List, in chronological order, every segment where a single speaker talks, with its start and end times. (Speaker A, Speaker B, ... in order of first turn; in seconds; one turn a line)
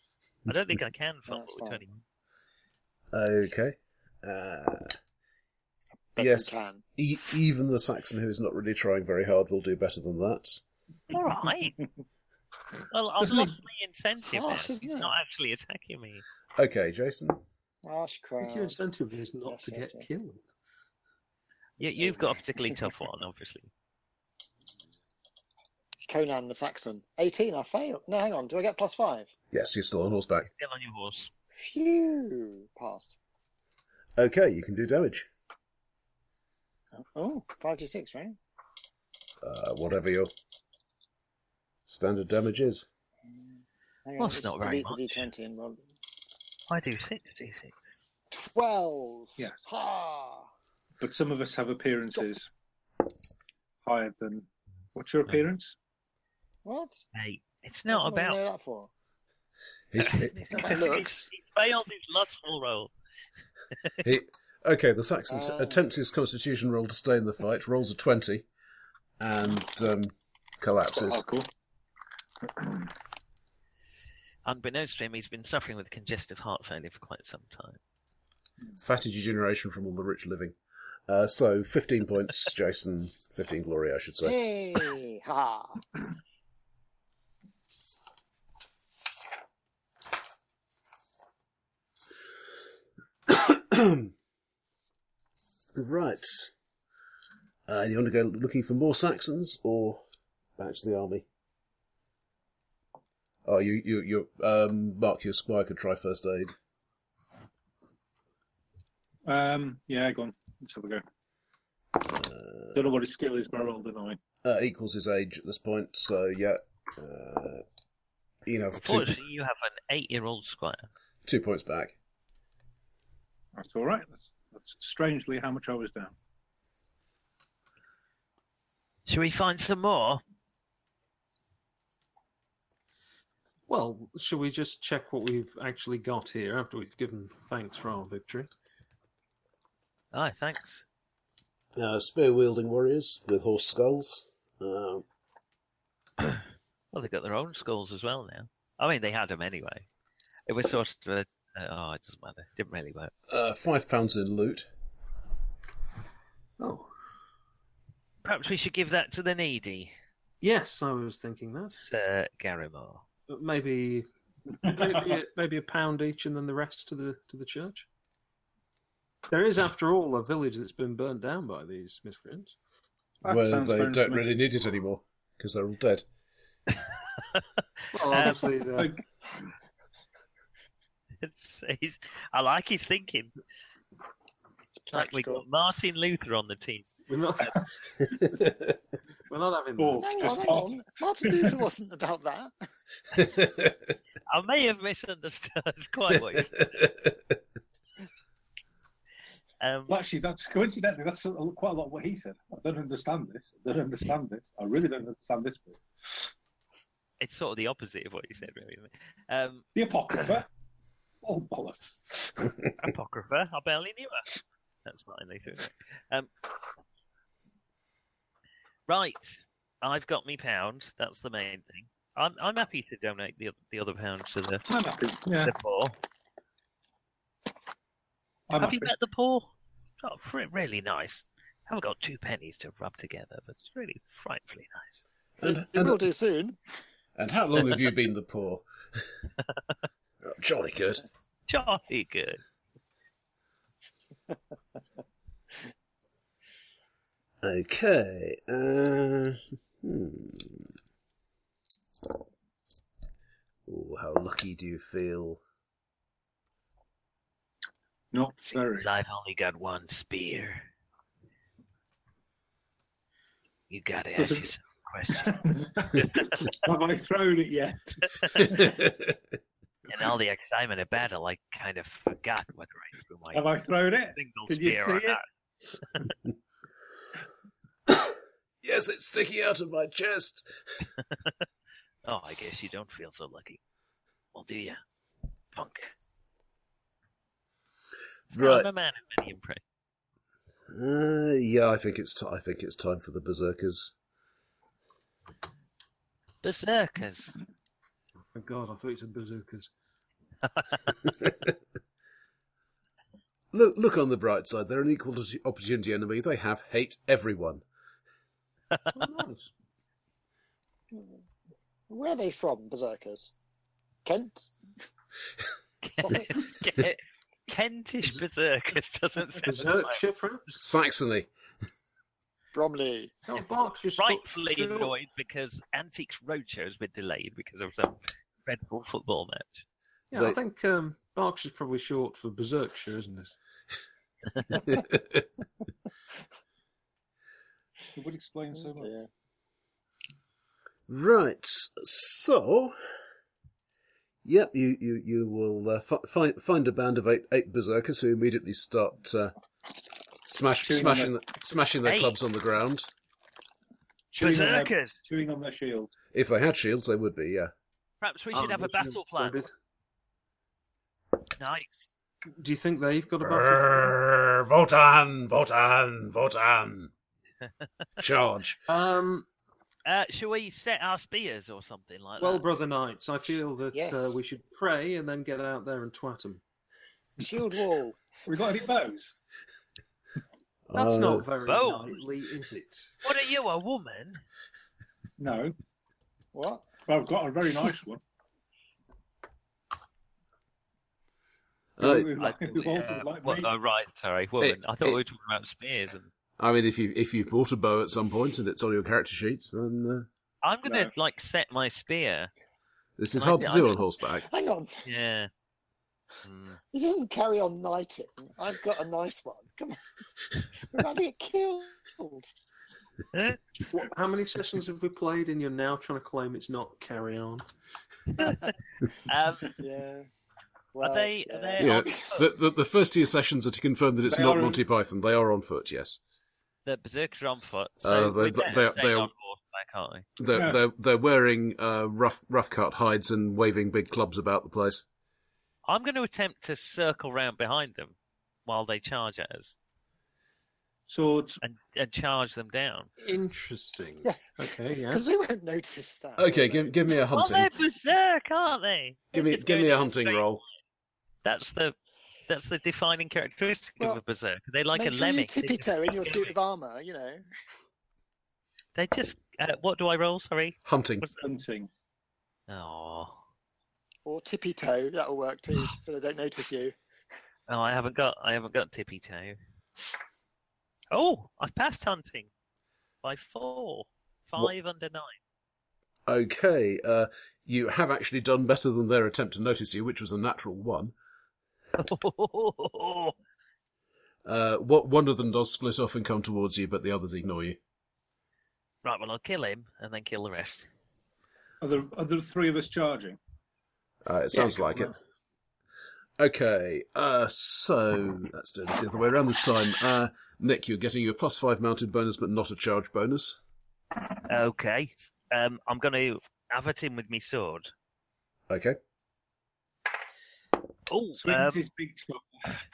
Speaker A: 0.5-2.0
Speaker B: 1.3-1.8
Speaker C: 3.1-5.0
Speaker B: 6.2-6.8
Speaker C: 6.2-10.6
Speaker A: 11.1-11.8
Speaker A: 12.9-16.2
Speaker D: 13.2-13.6
Speaker B: 14.2-15.2
Speaker C: 16.6-17.4
Speaker B: 17.8-18.8
Speaker E: 18.4-20.5
Speaker B: 19.5-20.1
Speaker A: 21.8-23.7
Speaker B: 21.8-22.8
Speaker B: 26.1-29.3
Speaker C: 29.5-30.5
Speaker A: 30.4-31.3
Speaker B: 31.6-33.2
Speaker C: 34.2-35.3
Speaker B: 37.0-38.4
Speaker C: 39.4-40.3
Speaker C: 41.9-42.9
Speaker B: 43.3-43.5
Speaker B: 44.1-45.8
Speaker A: 44.2-45.3
Speaker A: 46.7-48.0
Speaker B: 48.3-50.5
Speaker D: 51.0-52.5
Speaker D: 53.9-55.8
Speaker B: 56.6-57.1
Speaker A: 57.1-58.4
Speaker B: 57.9-58.9
Speaker C: 59.9-60.4
Speaker A: 60.0-62.9
Speaker B: 60.4-61.3
Speaker C: 64.0-68.5
Speaker B: 65.3-65.8
Speaker C: 69.2-71.2
Speaker D: 70.9-71.5
Speaker D: 72.5-72.9
Speaker A: 74.5-77.8
Speaker C: 78.8-80.6
Speaker C: 81.1-84.3
Speaker B: 84.2-85.8
Speaker C: 93.3-94.1
Speaker C: 95.8-96.5
Speaker C: 97.7-100.0
Speaker C: 100.6-101.3
Speaker C: 103.5-106.5
Speaker D: 109.3-111.0
Speaker C: 112.1-112.8
Speaker D: 112.7-114.2
Speaker C: 114.4-117.6
Speaker C: 118.5-119.1
Speaker A: 118.8-120.9
Speaker C: 121.2-122.0
Speaker D: 123.6-126.1
Speaker A: 129.1-130.2
Speaker E: 133.7-138.5
Speaker A: 140.1-140.8
Speaker C: 141.8-145.1
Speaker A: 146.9-149.8
Speaker A: 150.5-153.1
Speaker C: 153.3-154.7
Speaker E: 156.6-156.9
Speaker A: 158.2-159.9
Speaker E: 160.4-161.9
Speaker A: 161.8-163.0
Speaker E: 163.3-164.1
Speaker E: 164.6-167.9
Speaker E: 169.3-172.6
Speaker D: 173.2-174.3
Speaker C: 173.3-176.1
Speaker E: 177.9-179.0
Speaker A: 178.1-178.5
Speaker D: 178.8-179.0
Speaker A: 181.2-183.3
Speaker B: 184.8-185.4
Speaker A: 184.9-186.9
Speaker E: 187.1-187.7
Speaker E: 189.3-190.6
Speaker D: 189.8-191.6
Speaker B: 190.0-192.5
Speaker C: 193.2-193.9
Speaker A: 194.3-196.8
Speaker C: 196.3-197.3
Speaker A: 199.6-200.0
Speaker D: 199.9-206.3
Speaker A: 207.2-209.7
Speaker D: 209.8-210.5
Speaker D: 211.2-212.5
Speaker A: 212.8-216.3
Speaker A: 218.9-224.7
Speaker D: 224.7-225.5
Speaker A: 225.4-226.0
Speaker D: 228.5-228.9
Speaker A: 228.6-235.0
Speaker C: 235.4-236.0
Speaker B: 235.4-236.6
Speaker C: 237.2-239.1
Speaker C: 240.2-241.1
Speaker A: 241.5-242.4
Speaker C: 247.4-250.7
Speaker C: 253.7-255.4
Speaker D: 258.1-258.9
Speaker A: 258.8-260.7
Speaker A: 263.7-266.5
Speaker D: 264.2-264.5
Speaker D: 265.1-268.7
Speaker A: 268.2-268.6
Speaker C: 268.6-269.1
Speaker A: 269.9-273.5
Speaker D: 273.3-275.2
Speaker A: 274.1-275.2
Speaker C: 278.6-280.5
Speaker A: 282.1-283.6
Speaker A: 284.3-284.8
Speaker A: 285.5-285.9
Speaker A: 288.3-289.6
Speaker C: 288.3-288.7
Speaker C: 290.7-293.9
Speaker A: 296.4-297.3
Speaker E: 298.3-299.7
Speaker C: 303.5-307.6
Speaker E: 308.9-309.5
Speaker B: 311.9-313.3
Speaker B: 314.1-314.6
Speaker A: 315.8-320.0
Speaker B: 316.0-316.7
Speaker E: 319.4-320.6
Speaker C: 320.6-321.3
Speaker B: 322.5-323.1
Speaker E: 323.2-324.9
Speaker A: 324.0-329.6
Speaker E: 330.1-333.4
Speaker C: 334.7-335.2
Speaker D: 337.9-338.9
Speaker B: 338.8-339.1
Speaker C: 340.9-342.8
Speaker C: 344.2-349.3
Speaker C: 350.2-352.9
Speaker D: 350.6-351.1
Speaker A: 351.8-352.1
Speaker D: 354.1-355.9
Speaker A: 354.2-355.0
Speaker C: 356.1-357.5
Speaker A: 358.0-359.4
Speaker E: 358.3-359.5
Speaker A: 361.4-361.9
Speaker E: 362.4-363.9
Speaker C: 363.2-366.9
Speaker C: 368.0-368.6
Speaker E: 368.7-369.3
Speaker A: 369.9-372.6
Speaker E: 372.2-376.4
Speaker B: 373.7-374.2
Speaker B: 377.2-378.0
Speaker D: 378.3-379.1
Speaker C: 380.7-381.3
Speaker E: 380.7-383.0
Speaker A: 381.4-382.0
Speaker A: 383.0-384.2
Speaker D: 385.2-385.6
Speaker B: 386.3-386.8
Speaker D: 386.9-388.0
Speaker C: 391.8-392.1
Speaker D: 391.8-393.5
Speaker A: 392.2-396.1
Speaker C: 394.4-395.0
Speaker C: 396.4-400.1
Speaker A: 400.4-402.3
Speaker D: 400.6-400.9
Speaker C: 403.0-404.3
Speaker A: 403.1-403.8
Speaker B: 404.3-404.8
Speaker A: 404.9-405.3
Speaker A: 406.2-406.6
Speaker B: 406.7-409.8
Speaker B: 410.6-412.3
Speaker A: 413.1-413.4
Speaker E: 413.7-417.5
Speaker A: 418.1-418.5
Speaker A: 419.1-419.6
Speaker B: 419.6-420.1
Speaker B: 420.7-422.1
Speaker A: 420.8-422.3
Speaker C: 421.6-426.0
Speaker D: 424.1-424.6
Speaker A: 426.6-430.1
Speaker C: 427.8-429.1
Speaker C: 430.2-434.9
Speaker D: 430.3-430.6
Speaker A: 435.7-439.5
Speaker D: 440.9-441.4
Speaker A: 441.4-442.9
Speaker E: 443.0-445.1
Speaker B: 444.9-447.0
Speaker C: 446.2-447.5
Speaker A: 447.1-450.4
Speaker C: 449.1-450.4
Speaker A: 451.2-451.8
Speaker A: 452.3-456.3
Speaker B: 454.7-457.2
Speaker A: 458.8-461.3
Speaker C: 460.7-461.1
Speaker D: 461.2-461.7
Speaker A: 462.5-463.2
Speaker B: 464.1-466.8
Speaker A: 467.5-469.4
Speaker A: 470.9-472.3
Speaker A: 473.0-475.1
Speaker C: 476.1-480.9
Speaker A: 481.8-483.2
Speaker C: 484.2-487.6
Speaker A: 488.8-490.7
Speaker D: 491.6-493.2
Speaker C: 494.1-494.9
Speaker C: 496.2-503.4
Speaker A: 504.3-507.7
Speaker C: 508.5-508.8
Speaker A: 510.9-511.6
Speaker D: 511.2-512.6